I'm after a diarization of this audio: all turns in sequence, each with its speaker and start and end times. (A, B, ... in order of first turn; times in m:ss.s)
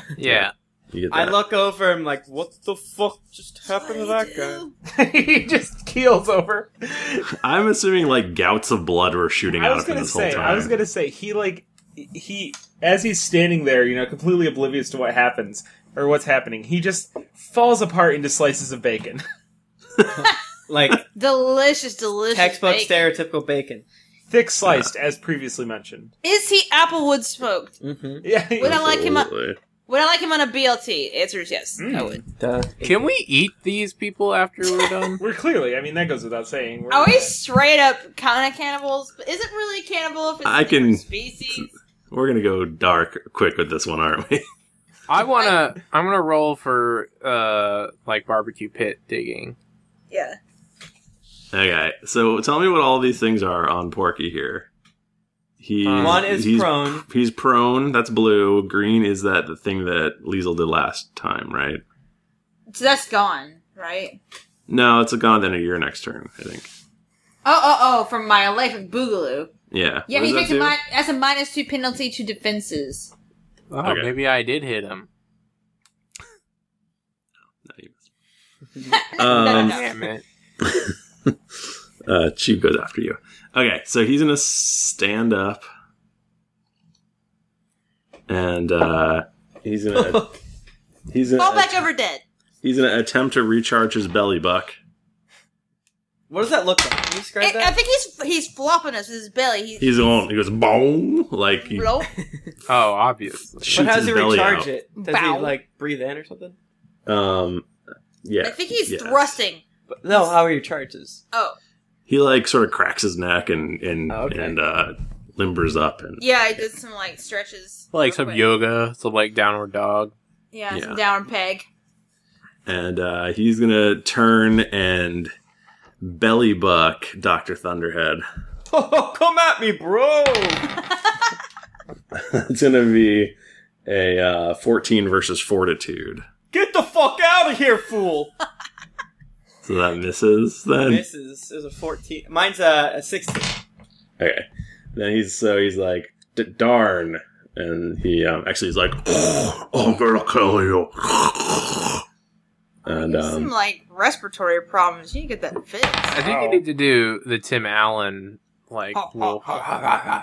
0:00.2-0:00.5 A
0:00.2-0:01.4 B
0:01.1-0:04.6 C
0:03.7-0:04.7 D
0:04.9-0:07.3 E
0:07.3-0:10.7 B
0:09.5-0:19.2 E
0:20.7-0:21.0 C
0:21.1-0:23.0 D
0:22.3-0:23.8 C
0:24.3-0:26.1 E
0:26.2-0:27.7 D
0:27.8-0:28.2 C
0:28.2-0:28.8 E
0:28.6-0:29.3 D
0:28.6-0:29.6 B
0:29.9-0:32.2 D
0:31.8-0:32.2 E
0:31.9-0:33.0 C
0:32.8-0:35.2 A
0:35.2-0:37.3 E
0:36.9-0:41.7 D
0:40.4-0:44.4 B
0:45.1-0:49.6 A
0:50.1-0:50.4 D
0:51.5-0:54.7 B
0:55.6-1:01.8 B
0:55.8-0:56.2 E
0:55.9-0:57.0 C
1:02.7-1:04.2 D
1:04.7-1:06.7 B
1:07.4-1:09.5 D
1:09.7-1:10.8 B
1:10.1-1:13.1 D
1:13.7-1:15.1 A
1:13.8-1:14.1 B
1:17.6-1:18.0 B
1:18.9-1:19.9 D
1:19.2-1:19.8 B
1:19.6-1:20.2 A
1:20.6-1:21.3 B
1:22.0-1:25.6 B
1:28.3-1:30.3 B
1:29.9-1:30.3 C
1:31.1-1:31.8 B
1:31.4-1:32.2 D
1:32.6-1:34.8 B
1:36.3-1:37.7 C
1:37.4-1:40.1 D
1:39.8-1:41.9 B
1:41.6-1:42.1 D
1:42.2-1:42.5 C
1:42.7-1:43.9 A
1:43.6-1:44.7 B
1:43.7-1:46.6 C
1:45.0-1:45.6 D
1:47.0-1:47.7 B
1:48.2-1:49.4 B
1:48.4-1:49.6 D
1:49.9-1:51.2 C
1:51.3-1:51.6 D
1:52.1-1:56.2 B
1:54.1-1:54.6 C
1:56.2-1:58.4 D
1:57.9-2:00.1 A
2:00.5-2:01.6 D
2:00.7-2:01.0 B
2:02.6-2:05.3 B
2:06.0-2:08.2 B
2:08.7-2:10.7 C
2:12.1-2:13.3 B
2:13.8-2:16.2 B
2:16.5-2:18.3 C
2:19.6-2:21.0 B
2:20.8-2:23.6 C
2:24.2-2:32.0 B
2:32.8-2:36.2 D
2:32.8-2:33.5 B
2:36.1-2:39.5 A
2:36.2-2:36.6 E